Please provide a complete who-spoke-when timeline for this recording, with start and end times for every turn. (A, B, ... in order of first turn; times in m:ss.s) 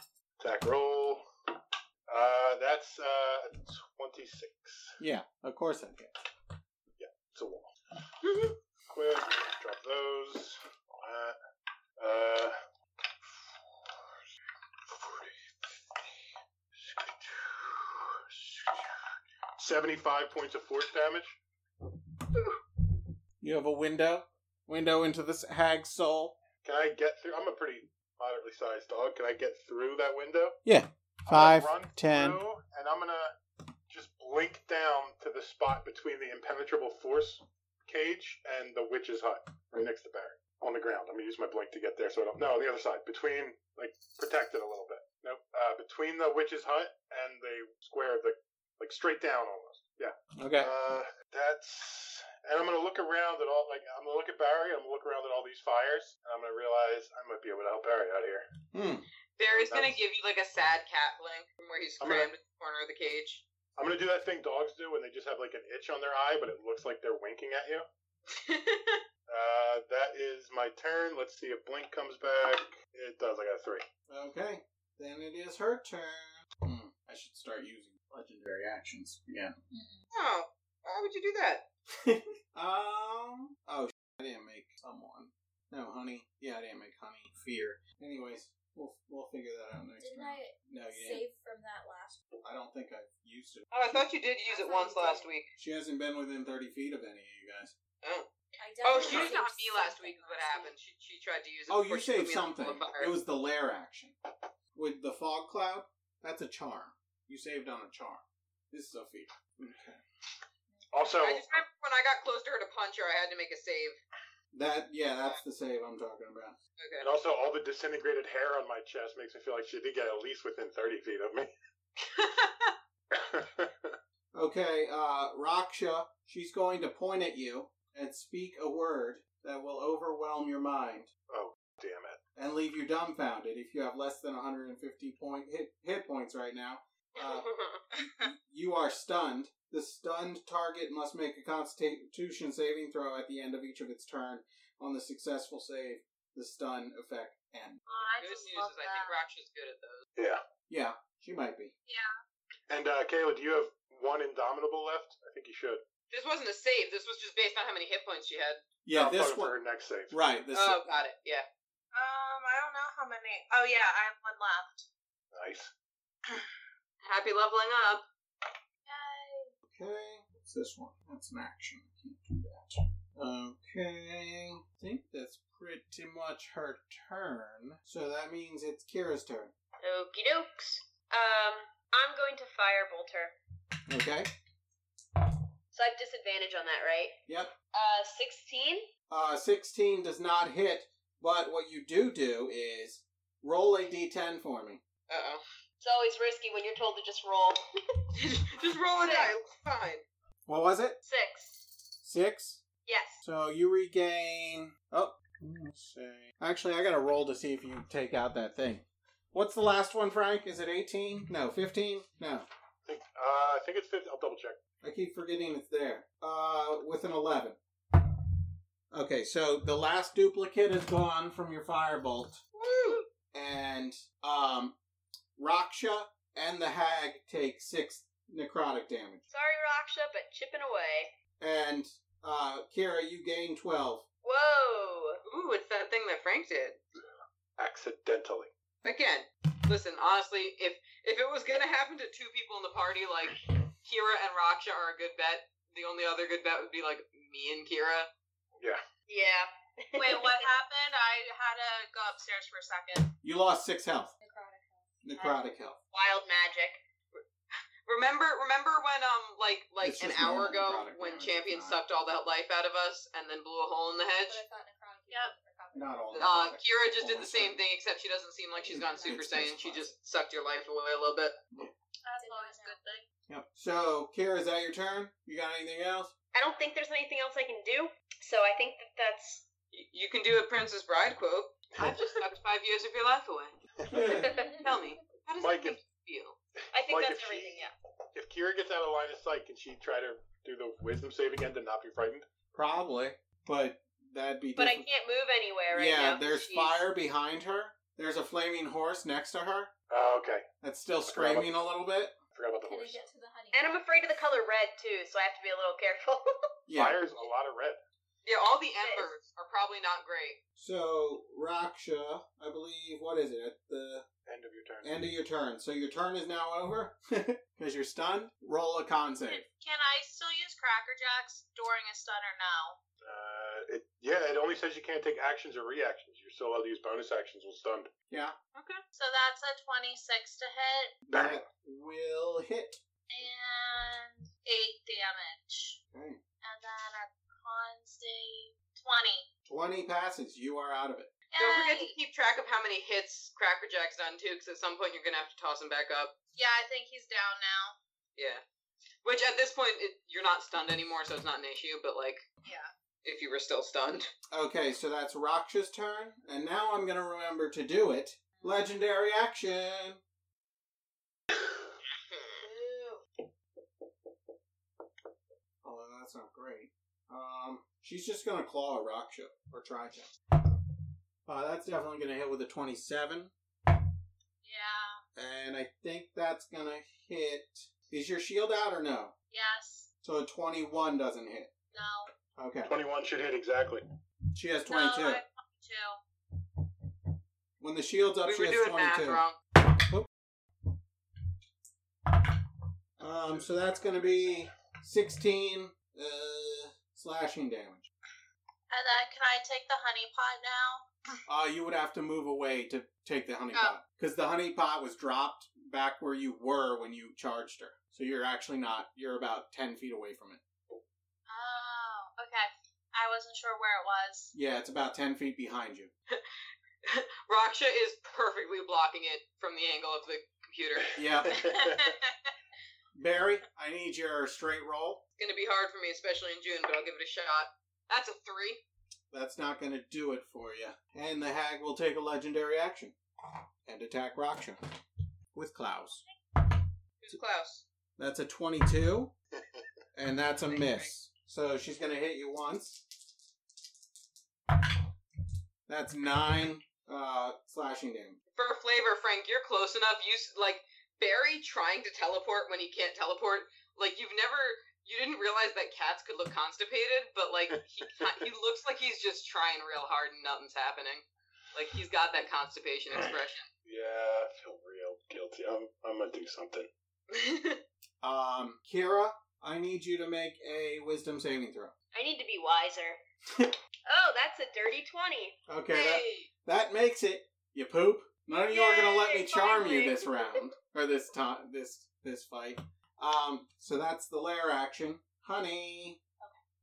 0:00.4-0:01.2 A
0:02.1-0:05.0 A
0:05.0-0:06.1 B
0:07.0-0:07.7 A
0:08.9-0:11.4 A
0:12.0-0:12.6 A
0:13.3-0:14.0 A
0:14.9-0:16.1 A
0:16.8-0:18.9 A
0:19.6-0:21.4 A
0:23.4-0:26.4 B
0:26.6-0:30.6 A
0:30.6-0:32.4 B
0:31.2-0:33.3 A
0:33.9-0:58.4 A
0:50.4-0:50.7 B
0:58.7-0:59.1 B
0:59.4-1:03.4 C
0:59.5-1:00.0 A
1:02.0-1:02.3 A
1:03.8-1:07.9 A
1:08.3-1:09.0 C
1:09.3-1:13.8 A
1:14.1-1:19.6 B
1:19.7-1:20.1 D
1:20.1-1:21.6 C
1:21.9-1:31.2 B
1:30.0-1:32.2 D
1:32.4-1:34.0 B
1:33.7-1:35.5 C
1:34.5-1:35.3 D
1:35.6-1:37.7 B
1:38.0-1:38.3 C
1:38.6-1:40.7 D
1:38.8-1:43.1 C
1:41.7-1:44.2 B
1:44.7-1:50.0 B
1:50.7-1:51.3 D
1:50.9-1:51.5 A
1:51.2-1:54.0 C
1:54.5-1:56.6 B
1:56.8-1:57.1 C
1:57.0-2:01.5 A
2:02.0-2:02.7 C
2:03.1-2:04.0 A
2:04.3-2:11.1 B
2:11.3-2:12.2 A
2:12.3-2:17.5 B
2:17.2-2:17.8 E
2:18.2-2:27.8 B
2:27.8-2:29.2 F
2:28.2-2:30.0 C
2:30.2-2:30.4 A
2:30.7-2:31.7 B
2:31.8-2:32.1 F
2:32.7-2:35.8 A
2:36.1-2:38.6 C
2:38.8-2:39.6 B
2:38.9-2:40.2 A
2:40.1-2:40.8 B
2:40.5-2:41.4 C
2:41.9-2:44.9 F
2:45.3-2:45.7 A
2:47.0-2:48.0 C
2:48.8-2:49.5 F
2:49.6-2:59.5 B
2:59.8-3:03.3 E
3:03.9-3:04.3 B
3:05.7-3:07.2 E
3:07.3-3:07.5 B
3:07.7-3:08.9 E
3:09.1-3:14.8 B
3:15.1-3:15.4 C
3:15.8-3:17.6 E
3:18.1-3:20.0 C
3:19.0-3:19.3 E
3:20.5-3:21.0 B
3:21.0-3:21.7 E
3:22.0-3:22.6 B
3:22.8-3:23.2 E
3:23.2-3:32.5 B
3:32.8-3:34.6 A
3:34.8-3:37.6 B
3:38.9-3:42.4 B
3:42.6-3:43.0 C
3:43.3-3:44.8 B
3:45.4-3:49.2 B
3:49.3-3:51.1 E
3:51.4-3:54.0 B
3:54.2-3:55.2 E
3:55.2-3:56.8 C
3:57.6-3:58.5 A
3:58.8-4:08.1 C
4:09.1-4:10.5 E
4:10.0-4:13.1 F
4:13.2-4:14.1 B
4:14.2-4:14.9 D
4:15.0-4:15.8 B
4:15.9-4:16.8 E
4:17.8-4:24.4 C
4:19.8-4:21.8 B
4:24.3-4:26.1 D
4:25.7-4:27.6 B
4:26.1-4:31.4 C
4:28.6-4:29.3 D
4:28.7-4:29.9 B
4:32.0-4:33.1 F
4:32.2-4:32.8 D
4:33.3-4:36.1 B
4:36.3-4:39.4 E
4:39.7-4:43.6 C
4:43.9-4:44.4 B
4:44.0-4:44.6 E
4:44.3-4:44.8 D
4:44.4-4:46.4 C
4:45.4-4:45.8 A
4:46.6-4:52.3 A
4:46.7-4:47.7 E
4:52.5-4:54.9 B
4:54.6-4:56.9 E
4:55.7-4:59.7 B
4:59.9-5:00.5 A
5:00.6-5:02.2 B
5:01.0-5:01.6 A
5:02.3-5:03.0 A
5:02.6-5:04.4 D
5:03.5-5:06.5 E
5:06.7-5:07.0 B
5:06.7-5:07.8 A
5:08.2-5:10.4 C
5:08.8-5:09.1 E
5:10.6-5:14.1 B
5:14.2-5:14.9 A
5:14.8-5:19.4 B
5:19.3-5:22.8 F
5:23.0-5:27.9 A
5:28.1-5:28.4 B
5:28.5-5:28.8 C
5:28.9-5:31.0 F
5:31.1-5:31.5 A
5:31.1-5:32.8 B
5:33.1-5:35.8 F
5:35.9-5:36.2 B
5:36.4-5:39.3 F
5:39.4-5:41.1 B
5:41.3-5:42.0 F
5:41.4-5:46.1 C
5:46.3-5:47.8 F
5:48.2-5:48.4 C
5:49.0-5:52.2 C
5:52.4-5:52.7 F
5:53.0-5:54.1 C
5:54.3-6:00.0 B
6:05.6-6:10.1 B
6:11.2-6:13.3 B
6:14.4-6:15.0 F
6:15.1-6:19.1 B
6:19.3-6:19.9 F
6:20.0-6:21.5 B
6:21.7-6:22.1 F
6:22.3-6:22.8 B
6:22.6-6:23.8 A
6:24.3-6:25.2 B
6:24.6-6:26.0 F
6:27.6-6:30.1 B
6:28.2-6:29.4 C
6:33.0-6:37.9 B
6:33.0-6:34.5 A
6:38.7-6:40.8 F
6:41.3-6:50.4 B
6:43.5-6:43.8 F
6:51.3-6:54.3 F
6:54.3-6:55.9 B
6:56.8-7:01.9 C
7:01.0-7:01.5 B
7:01.2-7:01.9 A
7:02.9-7:05.0 B
7:05.2-7:08.6 C
7:09.1-7:13.0 B
7:13.6-7:14.6 B
7:15.3-7:16.0 B
7:17.0-7:17.6 C
7:18.0-7:19.1 B
7:19.9-7:22.8 B
7:20.3-7:20.9 C
7:25.7-7:28.2 B
7:28.3-7:43.5 C
7:43.6-7:46.7 A
7:47.1-7:47.6 C
7:48.0-7:51.7 B
7:51.9-7:53.0 E
7:53.9-7:55.4 E
7:55.5-8:06.0 B
7:55.7-7:56.3 C
7:58.5-8:00.4 E